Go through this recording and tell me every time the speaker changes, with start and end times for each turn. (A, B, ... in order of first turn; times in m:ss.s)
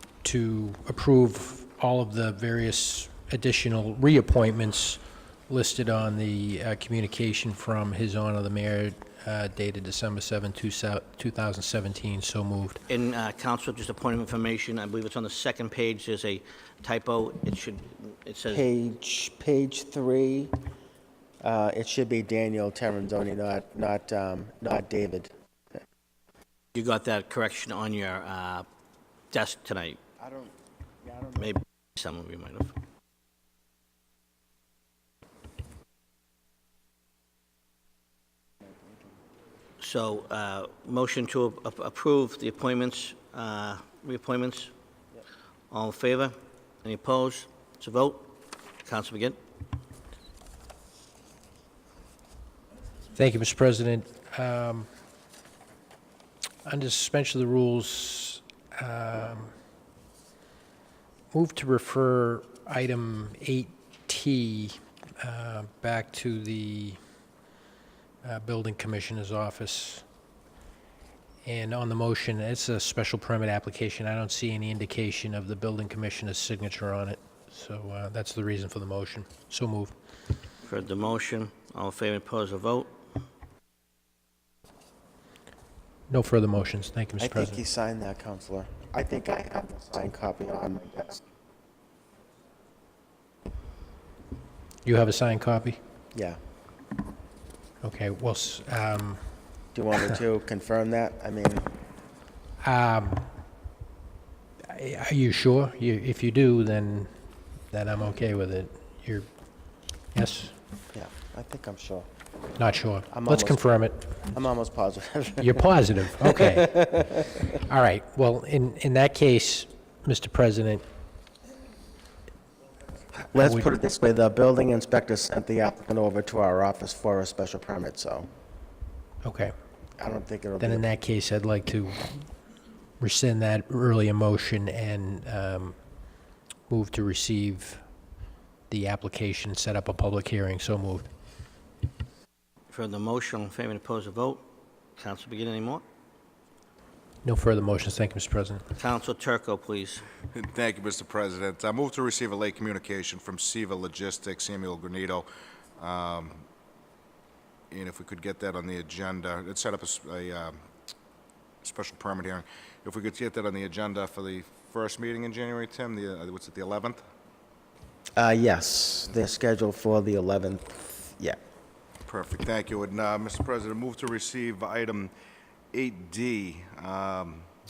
0:00.2-0:12.8 A
0:12.9-0:18.7 B
0:18.5-0:20.5 C
0:21.4-0:25.3 C
0:26.7-0:28.7 B
0:29.3-0:30.0 B
0:30.2-0:30.5 C
0:31.0-0:31.5 C
0:31.4-0:32.7 B
0:39.8-0:44.7 B
0:45.7-0:48.3 B
0:48.8-0:49.4 B
0:53.1-0:54.9 A
0:56.6-0:59.5 A
1:01.3-1:07.0 A
1:08.2-1:10.0 A
1:11.4-1:19.9 A
1:20.6-1:22.9 B
1:26.1-1:27.6 A
1:27.2-1:31.2 C
1:34.8-1:35.8 A
1:36.1-1:36.4 C
1:37.8-1:39.2 A
1:39.7-1:41.7 C
1:42.6-1:43.3 A
1:44.7-1:47.1 A
1:47.7-1:49.3 A
1:50.1-1:50.5 A
1:50.9-1:52.1 C
1:52.6-1:54.2 A
1:53.1-1:53.6 C
1:54.2-1:55.6 C
1:55.4-1:57.0 A
1:56.5-1:57.1 C
1:57.7-2:00.8 A
2:03.3-2:08.3 C
2:03.4-2:03.7 A
2:09.2-2:09.5 A
2:10.0-2:10.8 C
2:10.6-2:12.3 A
2:13.0-2:15.8 A
2:16.7-2:17.8 A
2:18.7-2:21.1 A
2:22.7-2:24.4 B
2:25.0-2:25.8 B
2:27.2-2:28.6 A
2:28.8-2:30.0 B
2:30.3-2:35.3 D
2:35.8-2:36.4 D
2:37.7-2:40.6 D
2:41.6-2:47.0 D
2:48.2-2:51.4 C
2:52.1-2:55.1 D
2:55.7-2:57.5 D